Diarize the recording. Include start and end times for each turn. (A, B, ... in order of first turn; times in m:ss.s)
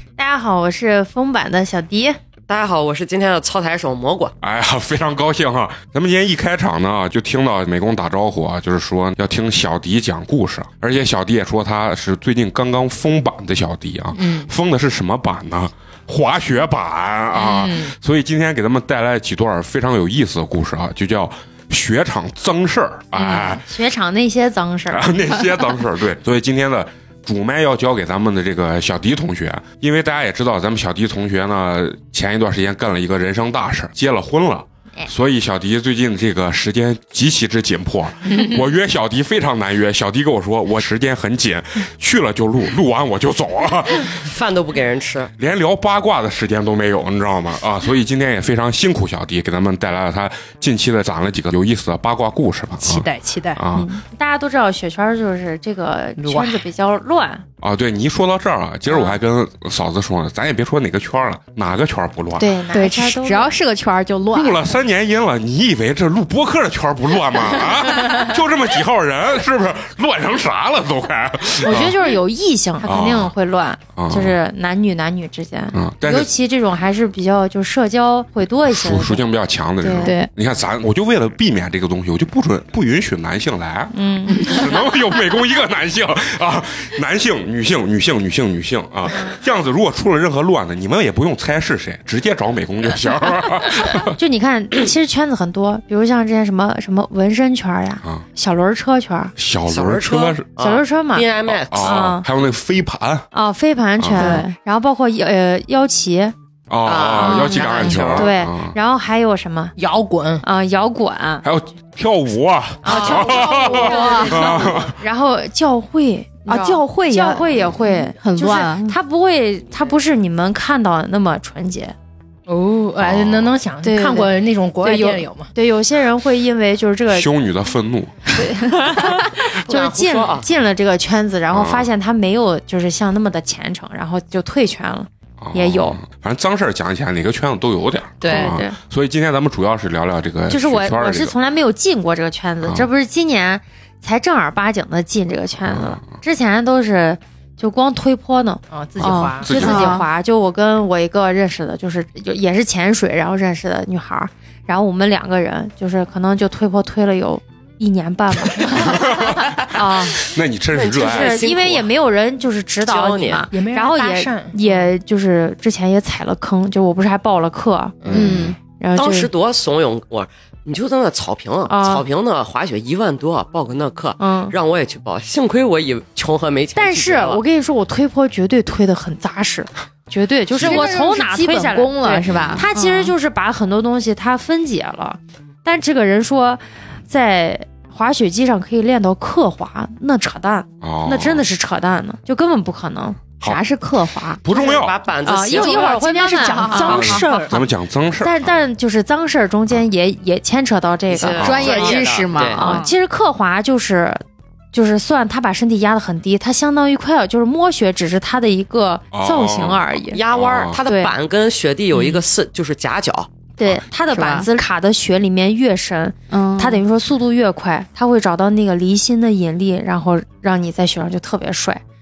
0:00.2-0:02.2 A
0:02.5-0:04.3 B
0:04.4-0:23.6 C
0:14.2-0:14.5 D
0:17.4-0:17.9 D
0:23.3-0:23.6 D
0:23.4-0:25.5 A
0:24.9-0:44.2 C
0:44.0-0:45.3 B
0:45.4-0:53.9 C
0:52.8-0:53.6 D
0:53.7-0:57.4 A
0:56.2-0:56.6 D
0:57.6-1:02.5 C
1:02.4-1:03.6 A
1:02.7-1:04.7 E
1:04.3-1:12.0 C
1:11.6-1:19.2 A
1:12.8-1:13.3 C
1:13.9-1:14.4 C
1:15.7-1:16.3 C
1:18.7-1:34.1 C
1:19.8-1:20.2 A
1:20.0-1:20.3 E
1:23.9-1:24.7 E
1:34.0-1:39.3 A
1:39.4-1:40.5 C
1:39.7-1:42.1 B
1:40.6-1:41.2 A
1:41.5-1:43.2 C
1:41.8-1:42.2 A
1:43.3-1:46.3 A
1:44.0-1:44.4 C
1:44.2-1:44.4 D
1:46.7-1:48.8 C
1:46.8-1:48.3 B
1:47.2-1:49.7 A
1:49.8-1:50.4 D
1:50.4-1:51.4 A
1:51.4-1:54.9 C
1:52.8-2:01.9 A
1:52.9-1:54.7 E
1:56.4-1:58.9 E
2:02.5-2:05.5 D
2:03.0-2:03.6 C
2:03.8-2:07.3 A
2:07.1-2:08.2 C
2:08.4-2:16.0 A
2:09.6-2:10.4 B
2:11.5-2:11.9 C
2:15.4-2:21.3 C
2:18.2-2:18.6 E
2:18.2-2:18.8 A
2:20.5-2:40.2 A
2:22.6-2:22.9 C
2:25.6-2:26.2 C
2:28.7-2:29.9 D
2:29.0-2:30.0 C
2:29.5-2:30.0 E
2:38.7-2:41.6 C
2:40.8-2:49.3 A
2:40.9-2:41.8 B
2:42.9-2:43.5 B
2:43.5-2:44.9 D
2:48.0-2:48.4 D
2:48.0-2:48.5 C
2:48.1-2:48.6 E
2:49.0-2:57.4 B
2:51.7-2:52.0 A
2:54.2-2:54.5 A
2:56.8-3:13.2 A
3:00.5-3:00.9 C
3:00.6-3:03.1 E
3:02.2-3:02.7 C
3:10.8-3:11.4 C
3:13.4-3:14.4 E
3:14.4-3:15.0 C
3:14.5-3:15.9 B
3:15.2-3:17.2 A
3:15.4-3:17.5 E
3:16.5-3:17.5 D
3:16.8-3:18.7 C
3:18.2-3:22.0 A
3:21.1-3:22.7 B
3:21.4-3:21.7 C
3:21.4-3:22.9 E
3:22.5-3:24.2 A
3:24.7-3:30.2 A
3:29.1-3:30.8 C
3:30.1-3:33.3 B
3:30.8-3:31.1 A
3:33.6-3:34.5 E
3:33.7-3:41.8 A
3:36.3-3:36.8 E